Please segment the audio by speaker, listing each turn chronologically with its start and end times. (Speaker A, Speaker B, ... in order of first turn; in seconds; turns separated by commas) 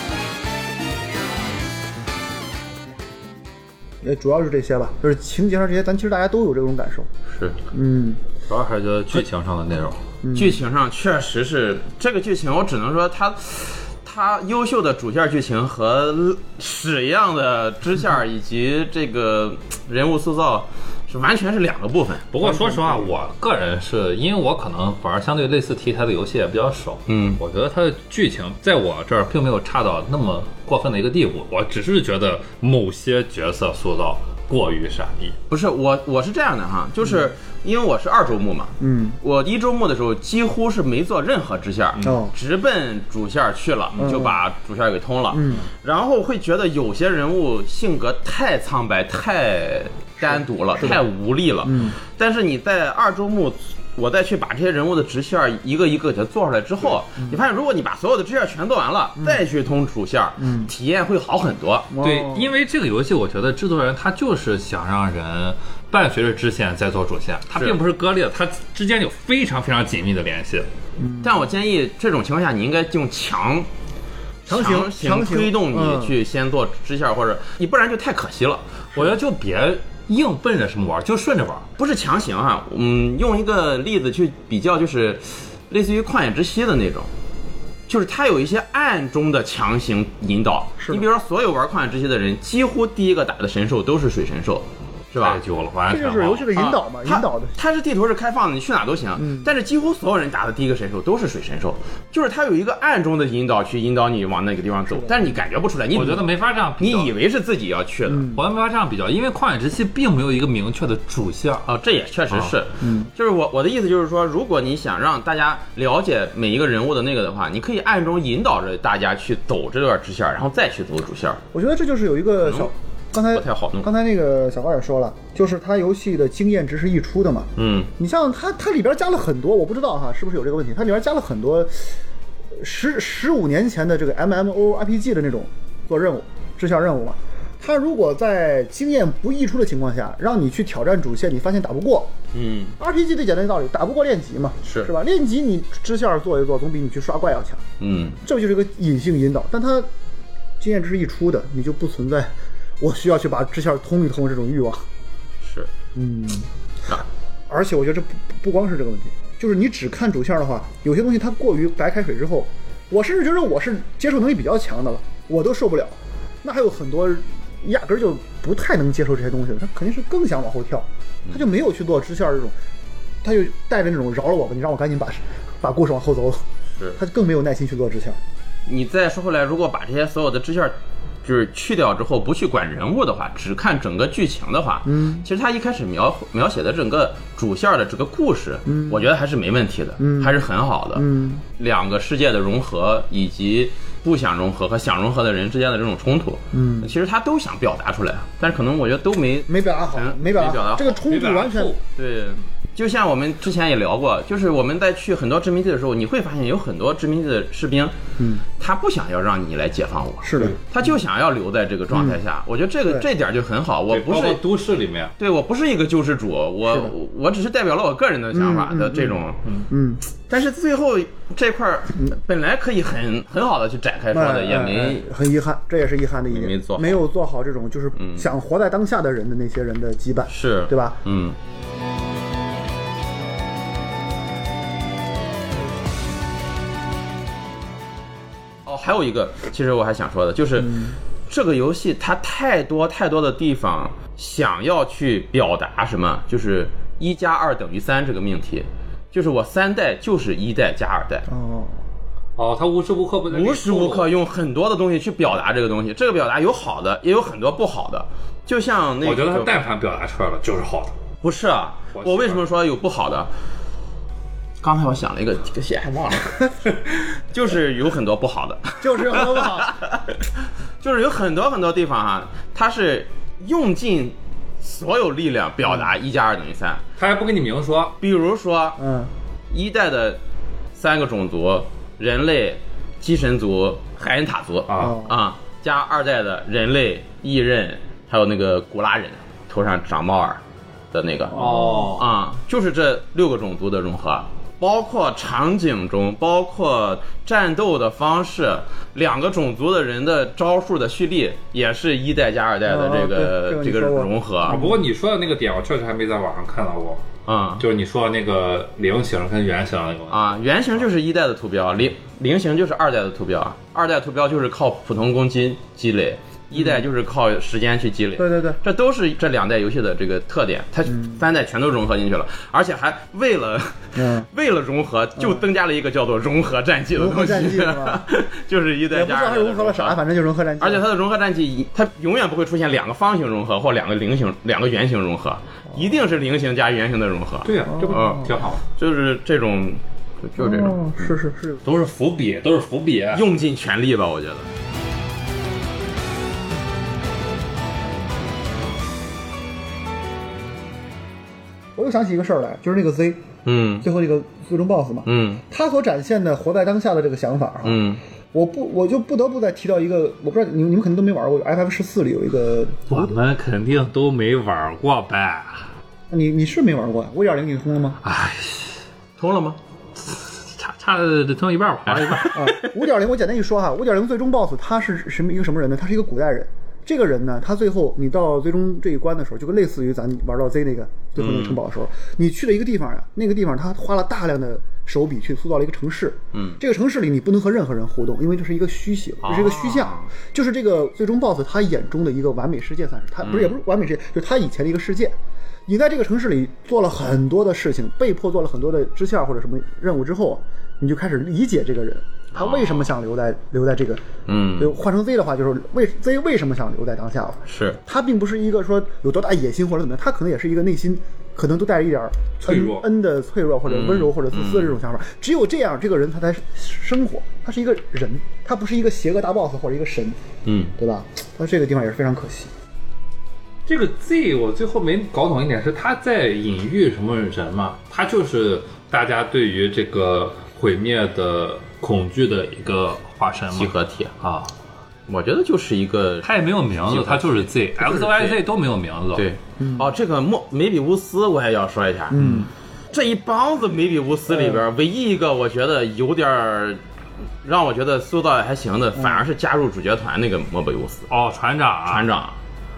Speaker A: 4.0-7.1, Speaker B: 7.3-7.6, Speaker A: 7.7-8.2, Speaker C: 8.5-10.0, Speaker A: 10.2-10.6, Speaker B: 10.3-22.2, Speaker C: 22.3-35.4, Speaker A: 22.4-23.1, Speaker B: 27.1-27.4, Speaker B: 35.5-61.9, Speaker A: 38.8-39.2, Speaker A: 42.0-42.3, Speaker A: 44.0-44.4, Speaker A: 45.3-45.6, Speaker A: 50.2-51.0, Speaker A: 51.6-51.9, Speaker A: 60.4-60.7, Speaker A: 61.9-62.5, Speaker C: 62.0-70.7, Speaker A: 71.0-71.4, Speaker B: 71.2-73.7, Speaker B: 74.5-78.6, Speaker A: 74.5-76.1, Speaker C: 78.9-81.7, Speaker B: 81.8-87.1, Speaker B: 87.9-95.4, Speaker A: 90.8-91.0, Speaker C: 95.2-96.5, Speaker A: 95.9-97.6, Speaker B: 96.5-106.2, Speaker A: 99.2-99.5, Speaker C: 105.9-107.1, Speaker B: 106.8-108.3, Speaker A: 108.1-108.4, Speaker C: 108.3-111.7, Speaker B: 111.7-121.4, Speaker A: 112.8-113.1, Speaker A: 121.5-132.0, Speaker B: 122.4-122.7, Speaker B: 123.3-123.9, Speaker B: 127.5-127.9, Speaker A: 132.6-142.1, Speaker B: 142.3-142.8, Speaker A: 142.8-147.6, Speaker B: 144.6-144.9, Speaker B: 147.8-148.2, Speaker A: 148.2-149.9, Speaker A: 150.6-154.8, Speaker B: 155.4-155.7, Speaker A: 155.9-156.5, Speaker A: 157.5-172.5, Speaker A: 173.2-178.2, Speaker B: 178.7-201.0, Speaker A: 184.8-185.2, Speaker A: 188.7-189.1, Speaker A: 190.0-190.4, Speaker A: 190.9-191.4, Speaker A: 196.5-196.9, Speaker A: 199.5-201.7, Speaker C: 201.0-201.8, Speaker B: 201.9-207.9, Speaker A: 208.2-208.4, Speaker B: 208.5-214.4, Speaker A: 210.2-210.6, Speaker A: 211.9-212.2, Speaker C: 213.9-215.1, Speaker B: 215.2-219.4, Speaker A: 216.7-216.9, Speaker A: 218.3-220.0, Speaker B: 220.3-225.0, Speaker A: 224.1-231.0, Speaker B: 226.3-227.0, Speaker B: 227.9-228.3, Speaker B: 230.3-231.4, Speaker B: 238.7-251.3, Speaker A: 240.6-240.9, Speaker A: 251.3-251.8, Speaker C: 252.4-254.1, Speaker B: 253.3-259.6, Speaker C: 259.0-260.9, Speaker B: 261.2-263.3, Speaker C: 261.9-262.4, Speaker B: 264.6-266.5, Speaker B: 267.1-270.2, Speaker A: 268.8-269.7, Speaker B: 270.8-276.8, Speaker C: 277.0-278.0, Speaker B: 278.0-278.8, Speaker A: 278.8-279.1, Speaker B: 279.5-280.2, Speaker B: 280.8-291.4, Speaker C: 284.7-285.0, Speaker A: 284.8-285.1, Speaker C: 291.3-292.1, Speaker A: 291.4-291.9, Speaker B: 291.9-304.6, Speaker A: 302.6-304.8, Speaker C: 304.4-307.0, Speaker B: 307.3-307.6, Speaker C: 307.6-310.3, Speaker B: 310.1-330.0, Speaker A: 318.2-318.6, Speaker A: 320.9-321.2, Speaker A: 323.9-324.3, Speaker A: 325.2-325.4, Speaker A: 326.9-328.0, Speaker A: 328.9-330.8, Speaker B: 330.6-341.1, Speaker C: 337.4-338.6, Speaker A: 337.7-338.3, Speaker A: 340.4-341.6, Speaker C: 341.6-343.2, Speaker B: 343.1-344.5, Speaker A: 351.8-353.2, Speaker B: 353.4-353.9, Speaker A: 353.8-357.8, Speaker B: 355.1-355.4, Speaker B: 357.6-358.0, Speaker A: 358.3-363.1, Speaker C: 362.9-365.7, Speaker A: 366.1-368.0, Speaker C: 368.0-368.8, Speaker B: 369.2-369.6, Speaker C: 370.0-372.4, Speaker B: 371.9-372.7, Speaker A: 372.3-395.1, Speaker B: 381.2-381.6, Speaker B: 386.3-386.6, Speaker B: 389.2-390.1, Speaker B: 393.2-393.6, Speaker A: 395.7-404.0, Speaker B: 402.3-402.9, Speaker B: 404.3-404.8, Speaker A: 404.6-420.2, Speaker B: 407.4-407.8, Speaker C: 412.4-412.8, Speaker B: 413.6-414.7, Speaker B: 420.4-420.7, Speaker A: 420.8-422.5, Speaker C: 423.7-434.5, Speaker B: 433.5-434.1, Speaker B: 435.1-436.3, Speaker C: 436.2-439.2, Speaker B: 436.8-438.4, Speaker B: 439.1-446.8, Speaker A: 439.6-439.9, Speaker A: 442.1-442.5, Speaker A: 444.3-444.6, Speaker B: 447.4-451.1, Speaker C: 451.1-452.1, Speaker B: 451.9-452.4